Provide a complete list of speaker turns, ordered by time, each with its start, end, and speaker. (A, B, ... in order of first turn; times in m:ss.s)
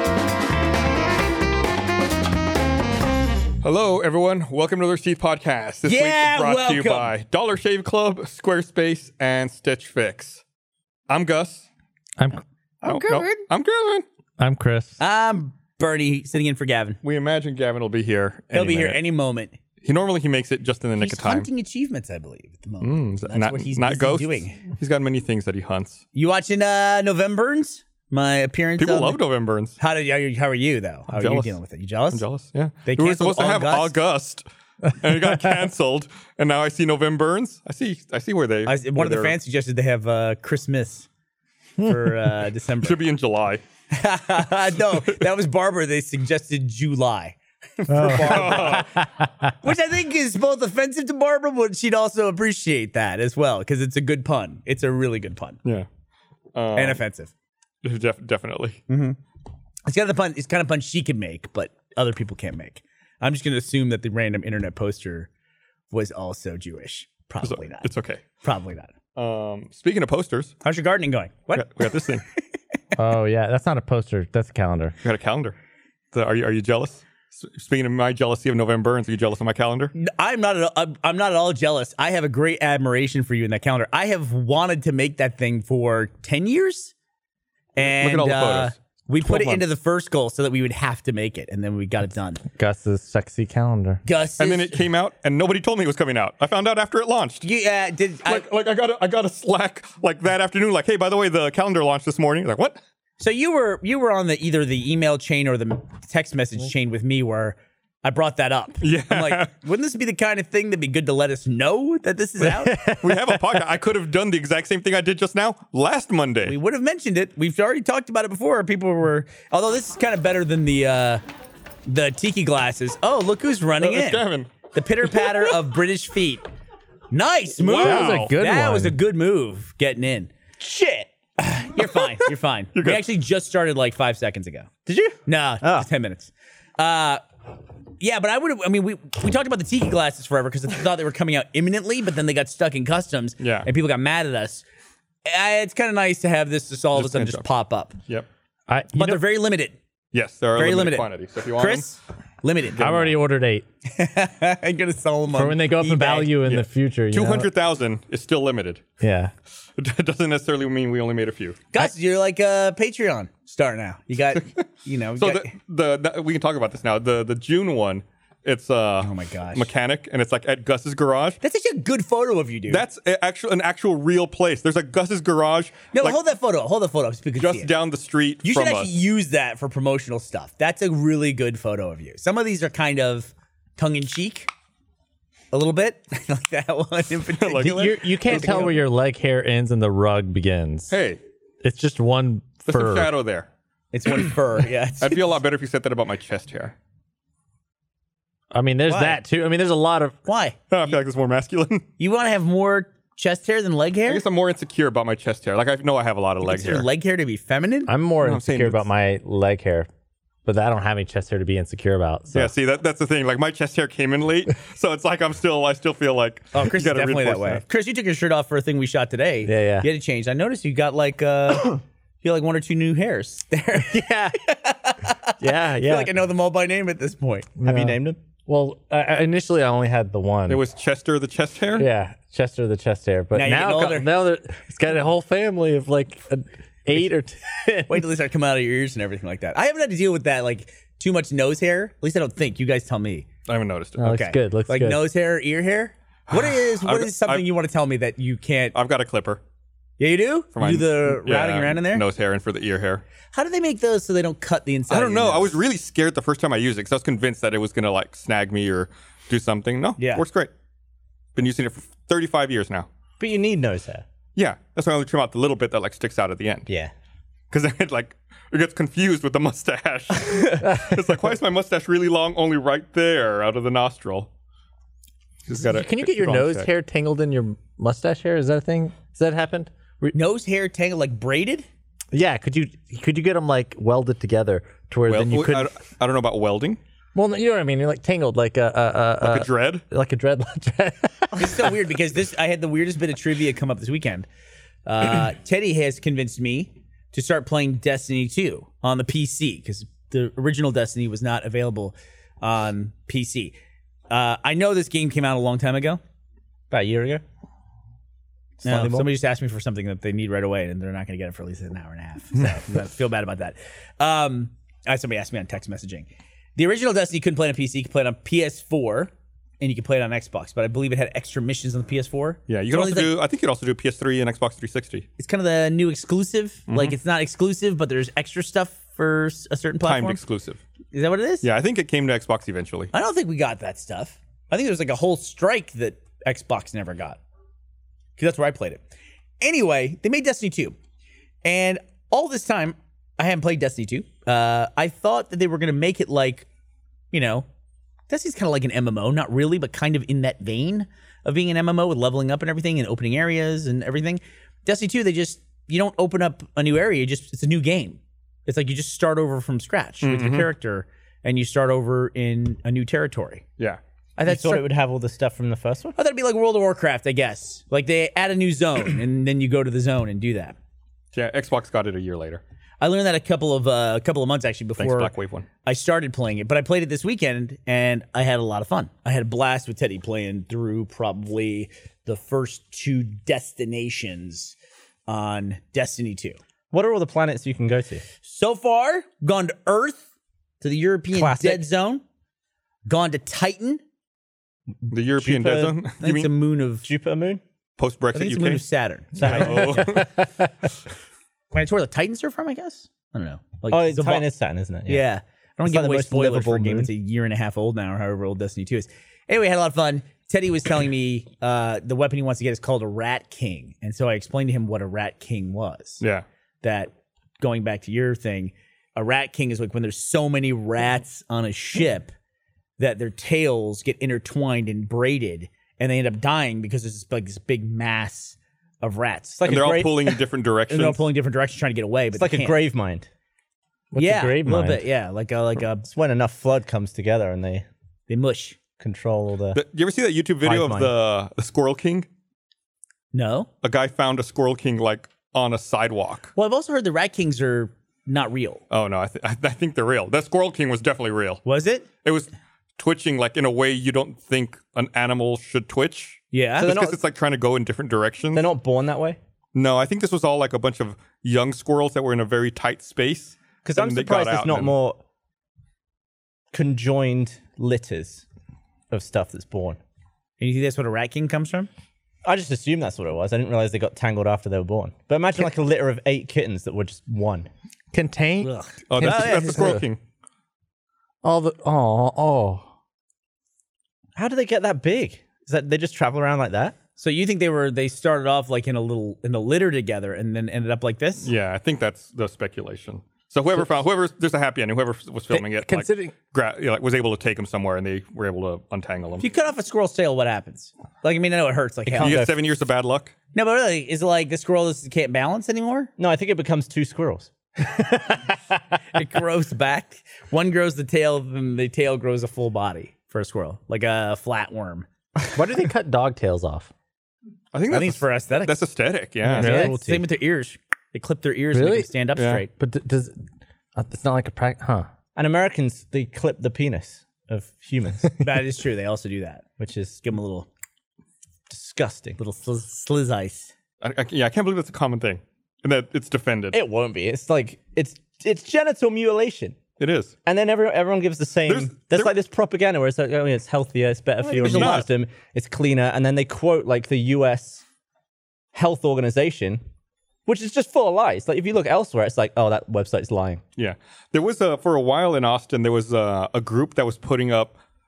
0:03.6-0:10.4 A
0:05.8-0:07.1 B
0:11.1-0:11.6 A
0:12.2-0:12.4 C
0:12.8-0:13.4 B
0:12.8-0:14.0 A
0:14.4-0:15.0 C
0:15.0-0:17.0 B
0:17.0-0:19.0 A
0:18.5-0:19.6 B
0:19.8-0:21.5 A
0:21.0-0:24.6 B
0:22.8-0:26.0 A
0:26.1-0:29.2 B
0:28.8-0:29.8 A
0:29.8-0:32.2 B
0:31.1-0:31.6 A
0:32.1-0:39.4 A
0:32.8-0:34.0 B
0:38.7-0:41.1 B
0:41.8-0:43.0 B
0:42.8-0:43.6 A
0:43.9-0:48.9 B
0:47.9-0:49.5 C
0:48.0-0:48.9 A
0:49.6-0:55.6 B
0:56.5-0:57.0 A
0:56.7-0:57.3 B
0:57.8-0:58.8 A
0:58.9-0:59.2 B
0:59.8-1:05.3 B
1:05.9-1:07.9 B
1:07.4-1:08.2 A
1:08.4-1:08.9 B
1:09.2-1:10.5 A
1:10.6-1:12.0 B
1:11.6-1:12.2 A
1:13.0-1:15.0 C
1:15.0-1:15.6 A
1:16.1-1:19.9 A
1:20.0-1:26.9 B
1:27.8-1:32.4 B
1:27.8-1:29.6 A
1:32.6-1:34.0 C
1:34.0-1:34.8 B
1:34.4-1:37.4 A
1:37.4-1:38.5 B
1:38.3-1:42.8 A
1:43.2-1:52.8 B
1:48.8-1:49.5 A
1:53.0-1:56.6 A
1:56.4-2:01.2 B
2:01.9-2:06.4 B
2:03.8-2:04.5 A
2:05.1-2:05.5 A
2:07.1-2:14.7 B
2:07.6-2:08.4 A
2:07.8-2:09.0 C
2:12.8-2:13.1 A
2:14.9-2:15.9 D
2:15.2-2:17.2 B
2:18.0-2:24.6 B
2:23.4-2:23.7 A
2:25.2-2:27.9 B
2:26.9-2:27.4 A
2:28.7-2:29.2 C
2:28.9-2:29.8 B
2:30.1-2:31.9 A
2:30.6-2:32.9 B
2:32.8-2:33.2 A
2:32.8-2:33.6 C
2:33.9-2:36.4 B
2:35.3-2:37.5 C
2:36.5-2:38.8 A
2:39.0-2:39.3 C
2:39.8-2:41.8 A
2:41.7-2:45.5 B
2:44.3-2:44.6 A
2:45.2-2:51.4 A
2:49.0-2:49.7 B
2:51.4-2:52.8 B
2:52.7-2:56.2 A
2:55.9-2:57.7 B
2:57.4-2:58.9 A
2:58.4-3:04.5 B
3:05.5-3:08.7 B
3:07.4-3:08.8 A
3:07.7-3:10.9 C
3:10.9-3:11.2 A
3:11.6-3:13.1 C
3:12.7-3:13.5 A
3:13.9-3:15.4 B
3:15.0-3:16.8 A
3:18.5-3:20.2 C
3:18.9-3:19.2 B
3:20.2-3:20.6 B
3:20.7-3:21.8 A
3:22.0-3:24.2 B
3:24.1-3:26.9 A
3:26.4-3:27.9 B
3:27.9-3:29.9 C
3:28.2-3:28.9 A
3:30.4-3:32.5 C
3:32.3-3:37.6 A
3:36.5-3:47.5 B
3:39.4-3:39.9 C
3:43.8-3:44.4 C
3:45.4-3:46.1 C
3:47.6-3:50.6 C
3:47.6-3:48.2 D
3:50.5-3:51.9 A
3:51.8-3:58.0 C
3:53.3-3:54.1 B
3:57.9-4:03.3 B
4:03.5-4:04.1 A
4:04.0-4:05.0 C
4:04.0-4:08.8 B
4:06.3-4:07.5 A
4:08.7-4:09.4 A
4:10.0-4:12.0 B
4:10.6-4:13.0 A
4:13.3-4:15.6 B
4:14.9-4:20.5 A
4:20.0-4:20.2 B
4:21.4-4:22.9 A
4:23.2-4:24.0 D
4:24.4-4:26.6 A
4:26.7-4:26.9 D
4:27.5-4:34.3 A
4:35.4-4:36.7 A
4:35.6-4:40.1 C
4:40.1-4:41.6 B
4:42.1-4:45.7 C
4:45.1-4:46.8 A
4:47.1-4:51.7 C
4:49.2-4:49.8 A
4:51.4-4:54.3 B
4:54.8-5:03.6 B
5:04.1-5:06.0 B
5:06.7-5:07.2 D
5:08.6-5:09.1 D
5:08.6-5:23.1 B
5:22.5-5:25.0 A
5:25.2-5:30.2 B
5:26.7-5:26.9 A
5:29.8-5:30.6 A
5:30.9-5:31.5 B
5:31.4-5:32.9 A
5:32.9-5:37.2 B
5:38.2-5:38.8 B
5:39.4-5:40.8 B
5:41.4-5:46.5 B
5:47.1-5:47.4 B
5:48.1-6:03.4 B
6:00.0-6:00.5 A
6:04.2-6:04.7 B
6:04.2-6:06.0 D
6:06.0-6:10.6 B
6:11.1-6:12.4 A
6:12.8-6:15.1 B
6:14.8-6:15.4 A
6:15.6-6:24.5 B
6:25.1-6:26.4 B
6:26.7-6:28.0 D
6:28.2-6:30.0 B
6:30.6-6:32.0 B
6:31.1-6:31.7 D
6:32.8-6:33.8 B
6:34.9-6:36.3 A
6:35.2-6:35.7 D
6:36.0-6:36.9 B
6:36.8-6:37.4 D
6:37.8-6:38.6 A
6:38.1-6:40.0 B
6:39.2-6:39.9 D
6:39.2-6:40.1 A
6:39.9-6:40.2 C
6:41.5-6:44.2 B
6:43.7-6:45.1 D
6:44.8-6:56.0 B
6:45.6-6:46.9 D
6:56.6-7:02.1 B
7:02.8-7:09.4 B
7:09.3-7:10.1 D
7:09.4-7:11.0 A
7:10.7-7:12.6 B
7:12.1-7:13.1 D
7:13.9-7:14.8 C
7:14.0-7:15.8 B
7:15.8-7:17.6 D
7:18.1-7:18.6 B
7:18.8-7:19.6 D
7:19.5-7:22.0 A
7:20.4-7:20.9 D
7:23.1-7:23.5 B
7:23.6-7:26.3 A
7:26.3-7:28.6 B
7:28.7-7:31.4 A
7:31.4-7:31.8 B
7:32.0-7:38.5 A
7:36.3-7:36.8 B
7:36.6-7:37.0 D
7:38.3-7:39.2 D
7:39.5-7:44.7 A
7:43.6-7:45.0 D
7:46.5-7:48.2 D
7:48.9-7:49.8 D
7:50.4-7:51.7 B
7:52.2-7:57.5 D
7:57.9-7:59.8 C
7:58.4-7:58.8 B
7:58.9-8:00.0 A
7:59.0-7:59.6 D
8:01.2-8:02.7 C
8:04.1-8:06.8 D
8:07.0-8:11.3 B
8:11.2-8:19.2 A
8:15.3-8:16.1 C
8:19.2-8:22.2 B
8:21.9-8:22.3 D
8:22.0-8:23.1 A
8:23.3-8:25.9 B
8:26.0-8:27.3 D
8:28.9-8:34.9 B
8:35.3-8:36.7 C
8:37.5-8:39.7 A
8:37.7-8:38.6 B
8:39.3-8:39.8 C
8:39.3-8:40.0 D
8:39.4-8:42.5 B
8:41.5-8:41.9 C
8:42.2-8:42.4 A
8:42.5-8:43.2 C
8:43.8-8:44.9 C
8:45.1-8:48.1 D
8:48.2-8:49.4 B
8:49.6-8:50.0 D
8:50.0-8:50.5 B
8:51.5-8:52.2 D
8:52.2-8:53.5 B
8:53.8-8:56.6 A
8:56.5-8:59.6 D
8:59.8-9:00.1 A
9:00.2-9:07.6 D
9:01.4-9:02.1 A
9:04.4-9:04.9 A
9:04.4-9:04.7 C
9:08.5-9:09.6 D
9:10.2-9:13.4 D
9:13.6-9:17.6 A